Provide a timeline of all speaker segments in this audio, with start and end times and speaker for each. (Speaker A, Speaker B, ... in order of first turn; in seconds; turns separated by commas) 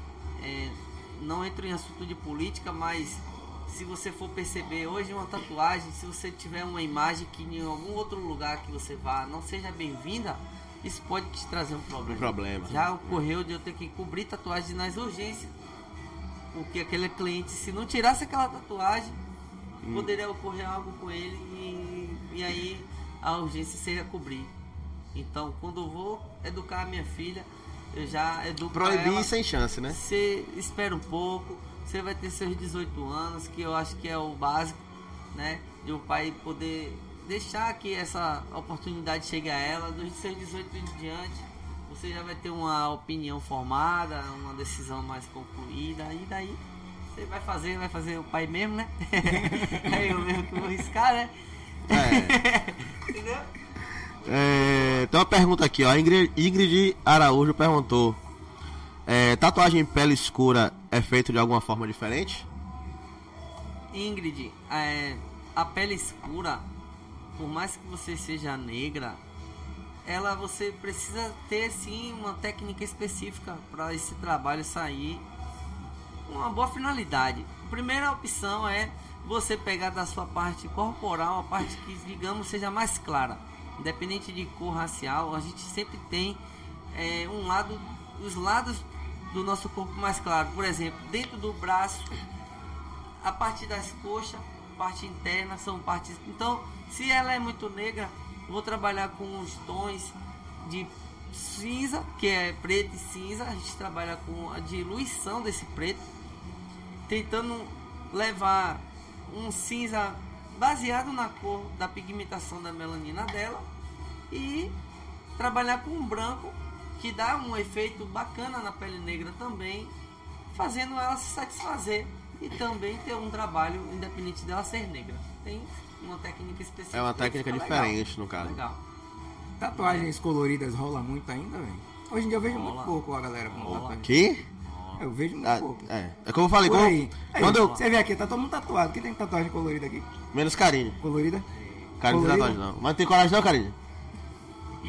Speaker A: 0.4-15.5, Speaker B: 12.1-13.2, Speaker A: 16.5-19.2, Speaker B: 19.8-20.1, Speaker A: 19.9-24.5, Speaker A: 25.1-29.3, Speaker B: 28.7-30.0, Speaker A: 29.9-34.8, Speaker A: 35.3-46.6, Speaker A: 47.1-51.3, Speaker A: 51.9-53.5, Speaker B: 51.9-52.4, Speaker B: 54.2-58.2, Speaker B: 59.1-62.5, Speaker A: 63.9-66.7, Speaker A: 67.4-69.2, Speaker A: 70.0-75.2, Speaker A: 76.3-86.4, Speaker A: 86.9-92.2, Speaker A: 93.2-106.1, Speaker A: 107.1-113.7, Speaker A: 114.3-114.7, Speaker A: 115.4-119.9, Speaker A: 120.5-128.8, Speaker B: 126.9-128.6, Speaker C: 129.6-134.1, Speaker A: 129.8-130.1, Speaker A: 132.4-133.0, Speaker A: 133.5-134.0, Speaker B: 133.7-134.4, Speaker A: 134.6-135.1, Speaker C: 135.0-135.9, Speaker B: 135.4-137.8, Speaker C: 136.6-140.1, Speaker A: 137.4-137.8, Speaker B: 140.3-141.0, Speaker C: 141.0-141.5, Speaker A: 141.6-141.9, Speaker B: 142.0-143.8, Speaker C: 142.1-142.6